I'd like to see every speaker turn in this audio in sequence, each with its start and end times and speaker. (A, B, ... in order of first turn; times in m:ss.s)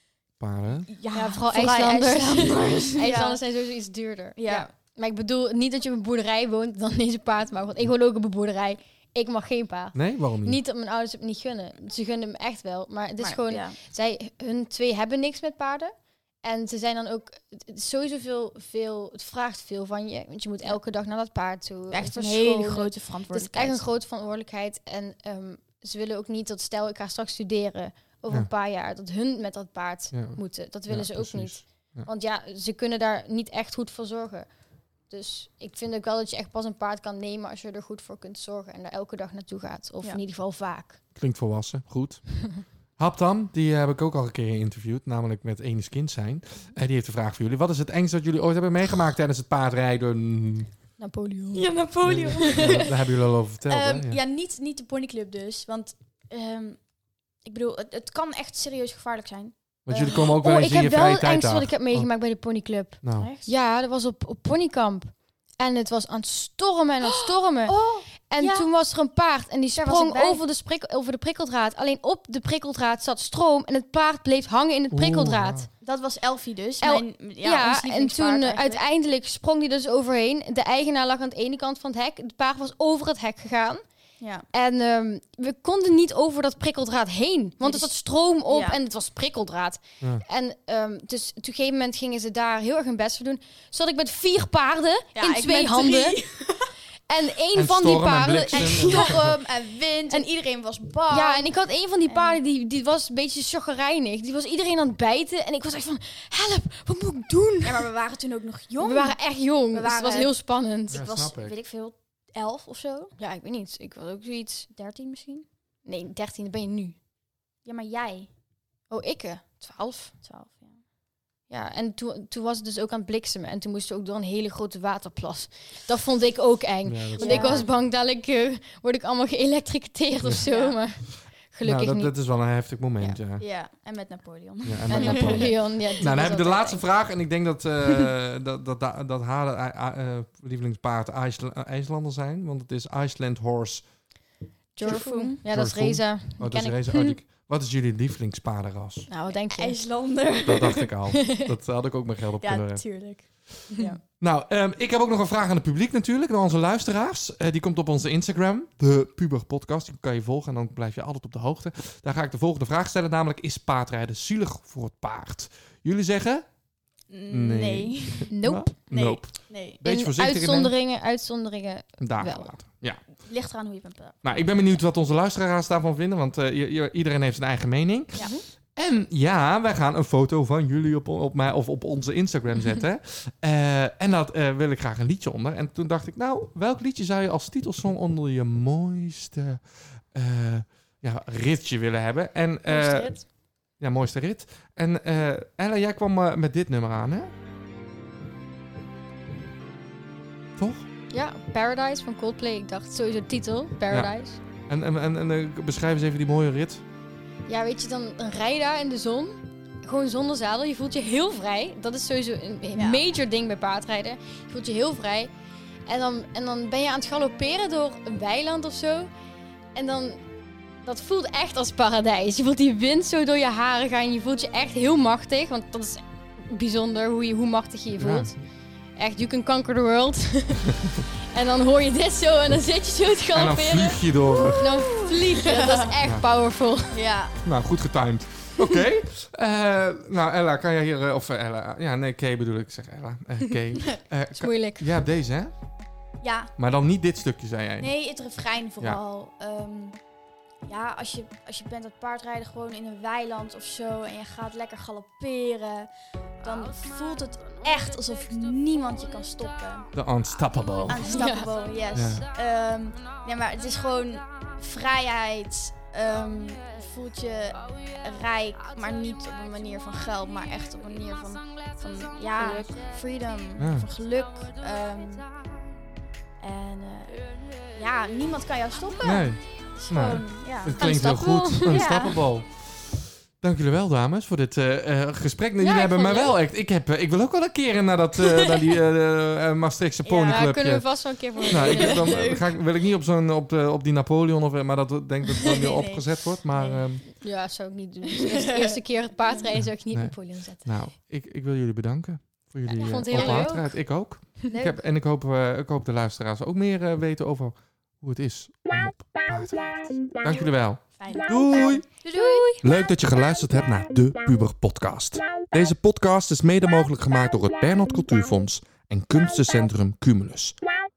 0:00.4-0:00.9 A
0:00.9-0:03.4 B
0:01.1-0:34.5 C
0:04.4-0:04.7 B
0:09.9-0:10.6 A
0:13.2-0:13.8 B
0:21.9-0:23.9 B
0:30.1-0:32.1 A
0:35.1-0:41.0 C
0:41.2-0:50.7 A
0:51.0-0:52.8 C
0:51.5-0:53.0 B
0:52.0-0:54.2 A
0:53.7-0:56.8 B
0:57.4-1:00.3 B
0:59.9-1:02.1 A
1:00.2-1:15.7 C
1:03.0-1:03.3 A
1:03.2-1:03.5 B
1:07.0-1:08.7 B
1:09.7-1:10.4 B
1:14.9-1:15.7 A
1:15.8-1:18.8 B
1:16.8-1:23.8 C
1:24.2-1:24.5 B
1:24.5-1:36.2 C
1:27.6-1:27.9 B
1:28.5-1:28.8 B
1:35.2-1:36.7 B
1:37.1-1:39.3 C
1:37.5-1:39.4 A
1:38.5-1:41.5 B
1:41.1-1:47.9 C
1:42.0-1:42.4 B
1:47.6-1:50.4 B
1:48.8-1:51.0 C
1:50.9-1:53.1 B
1:50.9-1:51.6 A
1:53.2-1:54.7 C
1:54.7-1:55.5 B
1:55.8-1:57.0 C
1:57.6-1:58.3 B
1:58.9-2:00.1 C
2:00.2-2:00.8 B
2:01.5-2:12.2 C
2:06.8-2:07.6 A
2:07.2-2:07.8 B
2:10.4-2:10.8 B
2:11.6-2:13.5 A
2:13.4-2:15.9 B
2:14.7-2:23.9 A
2:14.9-2:16.9 C
2:24.8-2:27.2 C
2:24.8-2:25.4 B
2:25.5-2:29.1 A
2:29.1-2:29.8 C
2:29.5-2:30.9 B
2:30.5-2:33.4 A
2:32.4-2:34.0 B
2:34.2-2:46.5 A
2:47.1-2:48.3 B
2:47.3-2:50.7 A
2:48.3-2:48.7 C
2:48.9-2:49.8 B
2:49.8-2:52.6 C
2:52.0-2:53.0 A
2:53.2-2:54.6 B
2:54.2-3:17.3 A
2:58.2-2:58.4 C
3:12.7-3:13.3 C
3:20.6-3:20.8 A
3:21.1-3:24.4 C
3:23.9-3:24.2 A
3:24.7-3:26.8 A
3:27.5-3:35.3 C
3:32.8-3:33.0 B
3:35.9-3:39.1 C
3:39.8-3:40.2 C
3:40.8-3:48.4 C
3:48.0-3:48.3 A
3:49.0-3:50.8 C
3:51.3-3:54.0 C
3:53.3-3:54.6 A
3:54.3-3:55.9 B
3:54.6-3:57.0 C
3:56.9-3:57.4 B
3:57.4-4:05.5 A
4:04.4-4:04.9 C
4:06.2-4:06.5 B
4:06.6-4:07.9 A
4:07.8-4:10.0 B
4:10.6-4:15.9 B
4:16.4-4:19.9 B
4:19.9-4:21.1 A
4:20.9-4:35.3 B
4:21.1-4:21.5 C
4:21.9-4:22.2 A
4:32.4-4:32.7 C
4:33.6-4:33.9 A
4:36.4-4:40.8 B
4:39.0-4:57.0 A
4:40.8-4:42.2 C
4:41.6-4:42.2 B
4:45.6-4:46.3 C
4:50.0-4:52.5 B
4:50.3-4:52.4 C
4:55.4-4:57.0 B
4:57.2-5:00.7 C
4:58.1-4:59.5 B
4:59.6-5:11.9 A
5:02.7-5:03.6 B
5:02.7-5:04.6 C
5:04.5-5:04.8 B
5:10.2-5:12.4 B
5:12.0-5:12.6 C
5:12.6-5:20.6 A